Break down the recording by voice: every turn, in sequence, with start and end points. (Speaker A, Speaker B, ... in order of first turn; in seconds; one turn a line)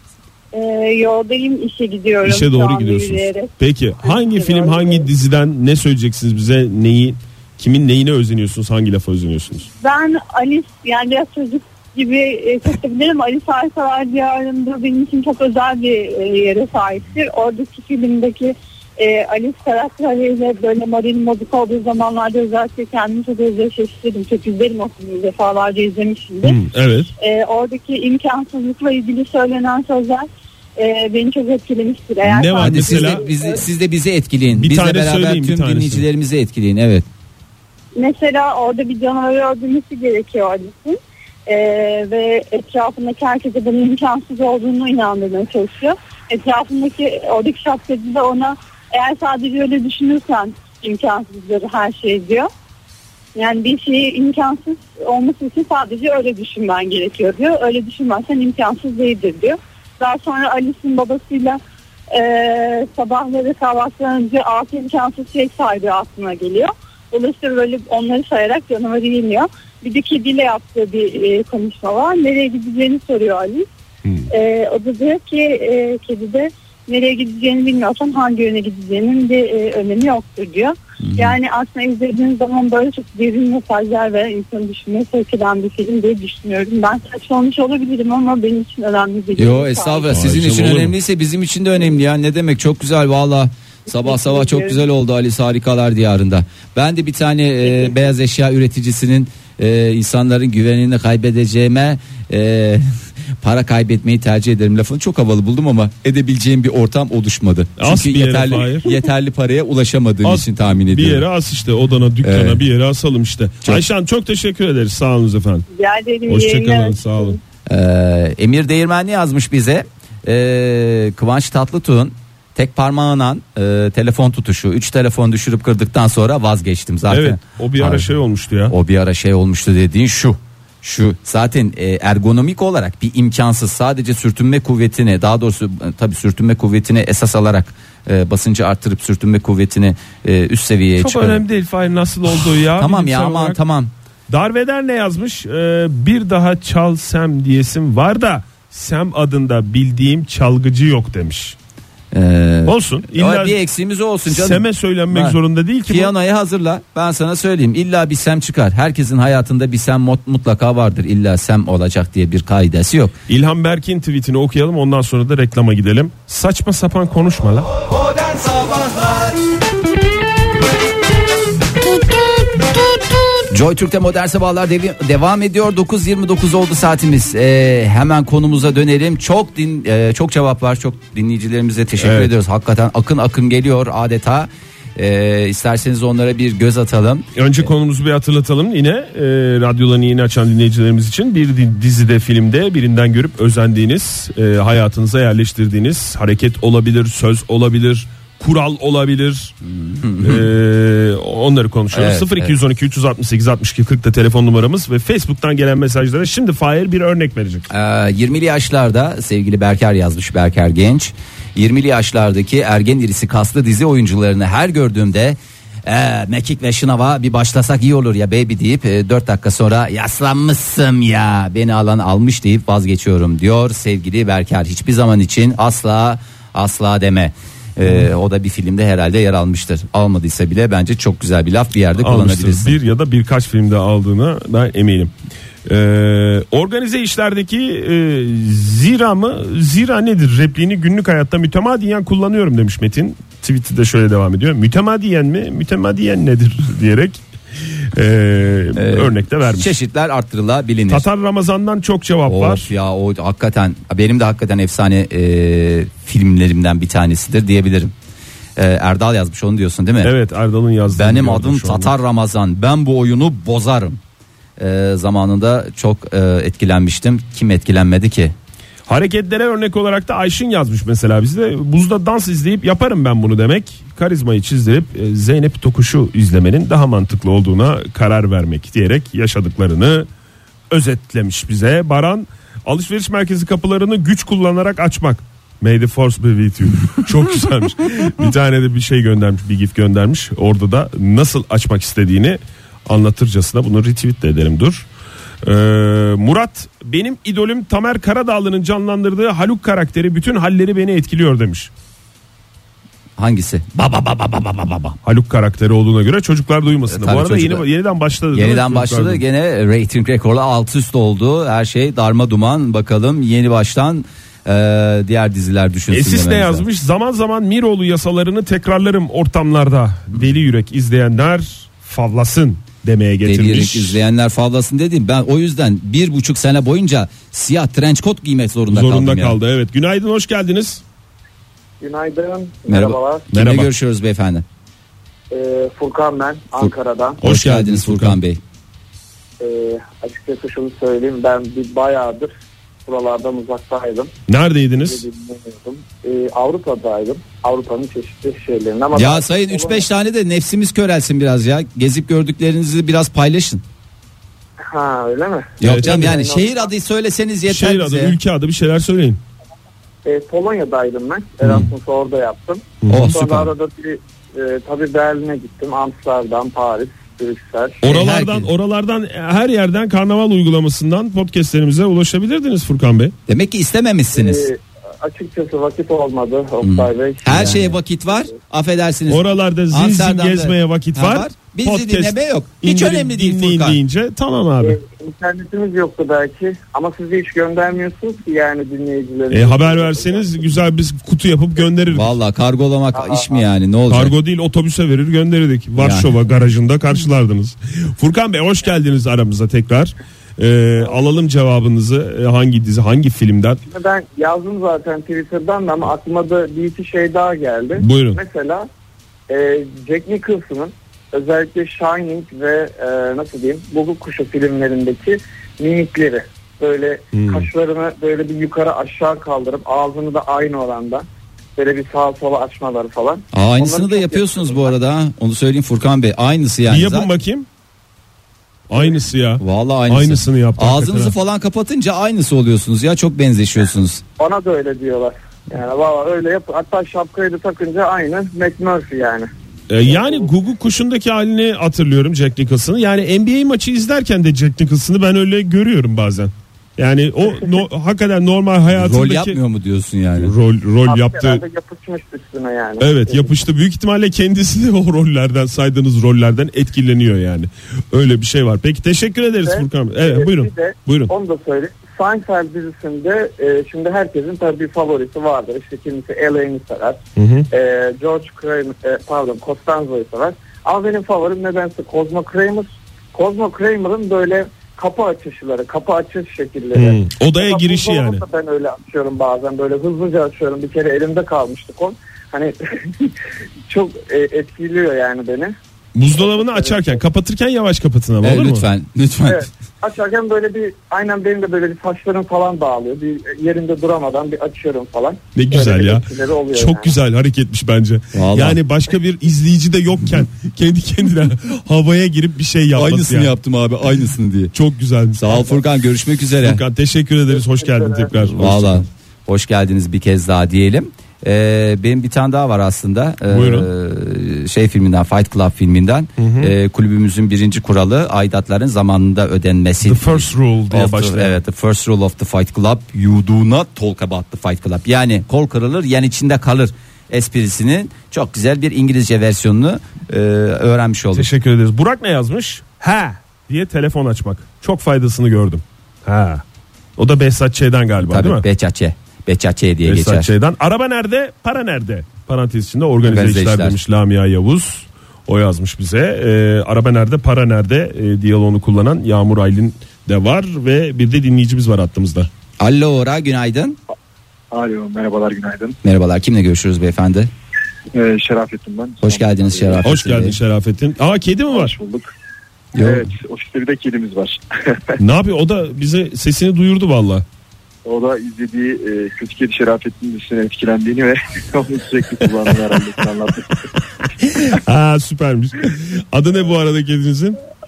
Speaker A: 0.5-3.5
Speaker B: 2.2-9.7
Speaker A: 4.0-5.1
Speaker A: 9.8-26.6
Speaker B: 26.4-27.1
Speaker A: 27.2-33.6
Speaker B: 32.2-33.2
Speaker C: 32.6-37.0
Speaker B: 34.5-36.0
Speaker A: 38.0-52.5
Speaker A: 53.3-73.7
Speaker A: 74.3-90.2
Speaker C: 81.0-81.3
Speaker C: 89.3-102.8
Speaker B: 90.1-91.0
Speaker A: 94.0-94.8
Speaker C: 103.4-111.2
Speaker B: 107.8-108.9
Speaker B: 110.2-115.7
Speaker C: 112.2-112.6
Speaker A: 115.7-117.4
Speaker B: 116.3-117.4
Speaker C: 117.7-128.1
Speaker B: 127.1-128.7
Speaker C: 128.7-141.4
Speaker B: 141.0-143.6
Speaker C: 142.8-143.9
Speaker B: 144.3-151.6
Speaker C: 152.1-163.1
Speaker B: 152.7-153.6
Speaker B: 154.3-156.1
Speaker B: 163.3-167.7
Speaker C: 173.5-187.6
Speaker B: 182.0-182.3
Speaker B: 187.3-199.5
Speaker C: 199.6-200.5
Speaker B: 200.2-207.7
Speaker C: 201.9-202.5
Speaker C: 207.7-232.8
Speaker B: 232.0-235.1
Speaker B: 235.7-247.2
Speaker B: 247.9-249.7
Speaker C: 248.7-251.1
Speaker B: 250.9-252.7
Speaker C: 252.2-257.9
Speaker C: 258.6-260.1
Speaker B: 260.0-262.0
Speaker C: 260.9-264.0
Speaker C: 264.6-268.3
Speaker B: 268.9-280.1
Speaker B: 280.7-294.9
Speaker B: 295.4-301.7
Speaker C: 303.2-305.0
Speaker B: 305.0-309.2
Speaker C: 306.9-307.6
Speaker C: 308.3-316.6
Speaker B: 315.9-324.0
Speaker C: 323.2-329.4
Speaker B: 328.7-330.8
Speaker D: 331.8-333.3
Speaker C: 332.7-334.4
Speaker B: 333.3-333.7
Speaker D: 335.3-337.2
Speaker B: 337.2-338.2
Speaker C: 337.2-338.4
Speaker D: 339.4-342.3
Speaker D: 342.9-344.1
Speaker B: 344.3-345.0
Speaker D: 344.8-349.9
Speaker C: 348.9-353.6
Speaker D: 354.7-356.7
Speaker C: 355.6-358.2
Speaker B: 355.6-356.2
Speaker B: 357.5-359.2
Speaker D: 360.0-367.8
Speaker B: 362.8-363.1
Speaker C: 362.9-363.5
Speaker B: 367.8-373.1
Speaker C: 367.9-368.5
Speaker C: 373.3-374.5
Speaker D: 374.1-377.8
Speaker C: 376.6-383.8
Speaker B: 377.3-377.6
Speaker B: 379.1-384.8
Speaker D: 384.6-390.5
Speaker B: 389.3-392.1
Speaker C: 391.9-394.1
Speaker D: 392.9-393.4
Speaker B: 393.9-403.6
Speaker C: 395.8-396.1
Speaker D: 403.6-408.7
Speaker B: 407.8-408.2
Speaker D: 409.3-424.7
Speaker B: 417.1-417.5
Speaker C: 423.3-427.1
Speaker B: 426.7-427.5
Speaker B: 428.7-431.1
Speaker C: 429.4-434.0
Speaker D: 434.2-439.3
Speaker B: 439.7-449.4
Speaker D: 439.8-440.3
Speaker C: 448.7-450.3
Speaker B: 450.2-451.4
Speaker D: 450.9-453.3
Speaker B: 452.8-461.1
Speaker D: 459.4-483.1
Speaker B: 467.2-467.5
Speaker B: 476.7-478.2
Speaker D: 483.7-485.6
Speaker B: 485.9-488.6
Speaker D: 486.1-487.0
Speaker C: 488.2-489.5
Speaker D: 489.3-496.9
Speaker B: 495.3-503.3
Speaker C: 498.1-498.6
Speaker C: 502.7-504.5
Speaker B: 504.5-505.6
Speaker C: 505.1-506.6
Speaker B: 506.4-508.9
Speaker D: 507.3-508.1
Speaker C: 508.3-531.3
Speaker B: 513.3-513.7
Speaker B: 516.2-516.5
Speaker B: 519.8-521.4
Speaker B: 531.1-536.4
Speaker B: 537.0-538.4
Speaker C: 538.0-540.3
Speaker B: 539.8-552.3
Speaker C: 543.0-543.8
Speaker C: 552.6-553.8
Speaker E: 554.5-555.8
Speaker C: 555.8-557.3
Speaker E: 557.9-559.8
Speaker C: 559.0-560.4
Speaker B: 559.8-561.7
Speaker E: 561.5-562.1
Speaker E: 562.7-565.0
Speaker B: 565.0-567.2
Speaker E: 567.8-573.6
Speaker B: 574.2-577.4